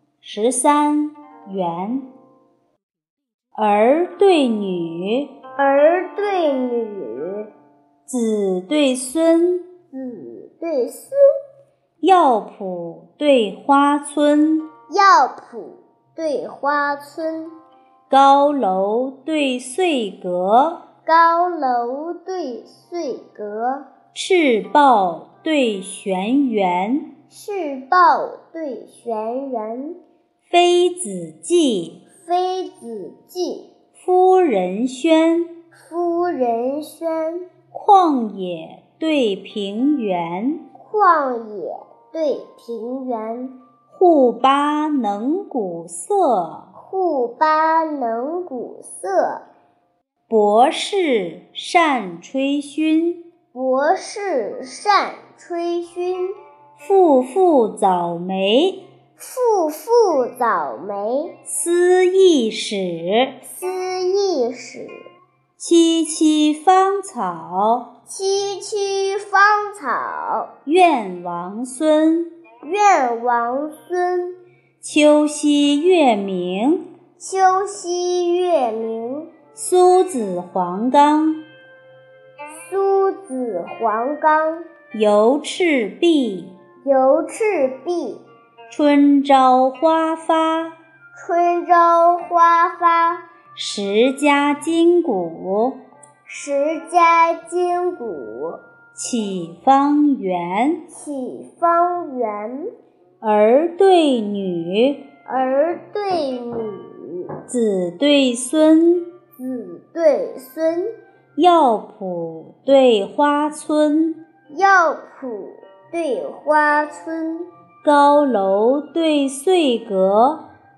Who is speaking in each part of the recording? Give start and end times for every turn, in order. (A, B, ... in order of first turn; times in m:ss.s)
0:00.2-0:02.1 A
0:03.6-0:05.3 A
0:05.6-0:07.5 B
0:08.1-0:09.6 A
0:09.9-0:11.2 B
0:12.0-0:14.7 A
0:14.9-0:17.6 B
0:18.1-0:20.8 A
0:21.0-0:23.8 B
0:24.1-0:27.1 A
0:27.3-0:30.0 B
0:30.4-0:32.0 A
0:32.2-0:33.7 B
0:34.0-0:35.5 A
0:35.7-0:37.4 B
0:37.7-0:40.6 A
0:40.8-0:43.6 B
0:43.9-0:46.7 A
0:46.8-0:49.4 B
0:50.3-0:53.2 A
0:53.5-0:56.4 B
0:56.8-0:58.8 A
0:59.2-1:01.3 B
1:01.5-1:03.4 A
1:03.4-1:05.1 B
1:05.6-1:07.9 A
1:08.1-1:10.5 B
1:10.7-1:12.3 A
1:12.6-1:14.4 B
1:14.8-1:16.8 A
1:17.2-1:19.3 B
1:19.5-1:21.4 A
1:22.5-1:24.6 B
1:24.9-1:26.5 A
1:26.8-1:28.2 B
1:28.7-1:30.8 A
1:31.1-1:33.2 B
1:33.5-1:35.8 A
1:36.2-1:38.6 B
1:38.9-1:40.8 A
1:40.9-1:42.7 B
1:43.2-1:45.0 A
1:45.2-1:47.4 B
1:47.5-1:49.1 A
1:49.4-1:50.9 B
1:51.4-1:54.2 A
1:54.5-1:57.5 B
1:57.8-2:00.4 A